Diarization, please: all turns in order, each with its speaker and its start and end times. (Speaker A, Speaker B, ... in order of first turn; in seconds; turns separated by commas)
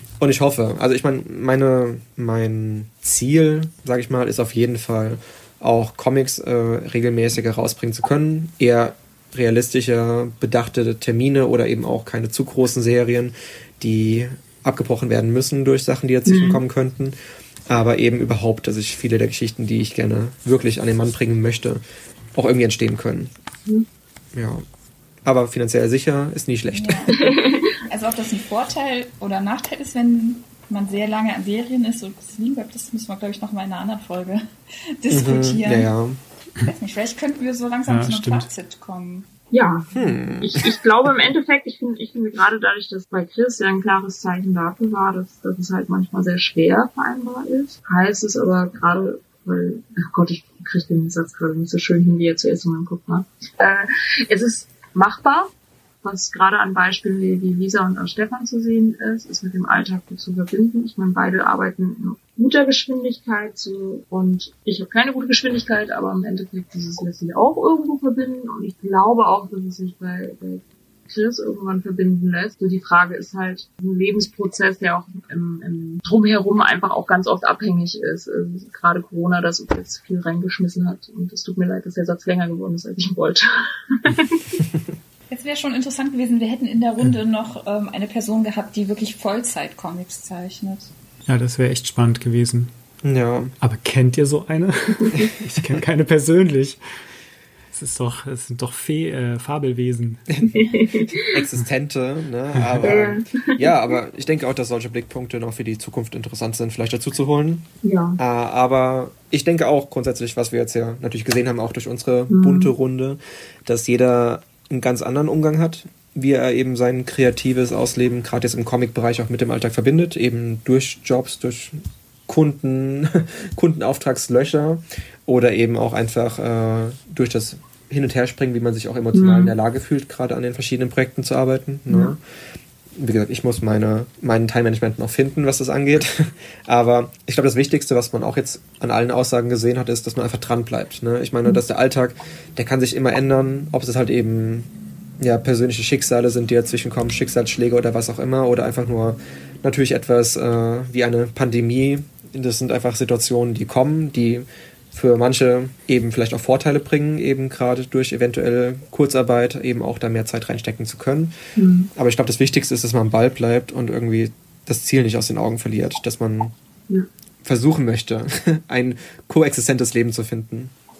Speaker A: 0.2-17.1, Speaker B: 16.2-16.6, Speaker A: 17.7-21.8, Speaker A: 22.3-23.3, Speaker A: 24.3-24.6, Speaker A: 25.2-27.2, Speaker C: 26.7-34.4, Speaker B: 27.1-27.7, Speaker C: 35.0-35.9, Speaker A: 35.1-36.2, Speaker C: 36.6-39.3, Speaker D: 37.9-38.5, Speaker B: 39.5-55.5, Speaker A: 39.9-40.8, Speaker B: 56.0-84.6, Speaker C: 85.3-90.9, Speaker D: 91.2-92.7, Speaker A: 93.0-93.5, Speaker D: 93.6-96.8, Speaker A: 95.2-95.8, Speaker D: 97.7-100.3, Speaker A: 100.3-107.7, Speaker B: 100.5-101.4, Speaker D: 102.6-102.9, Speaker B: 102.8-103.8, Speaker B: 107.8-108.2, Speaker A: 108.2-132.2, Speaker B: 112.3-112.7, Speaker B: 129.1-129.5, Speaker B: 131.9-132.1, Speaker A: 132.9-144.7, Speaker A: 145.2-161.3, Speaker B: 161.6-161.9, Speaker A: 161.9-166.5, Speaker A: 167.4-170.7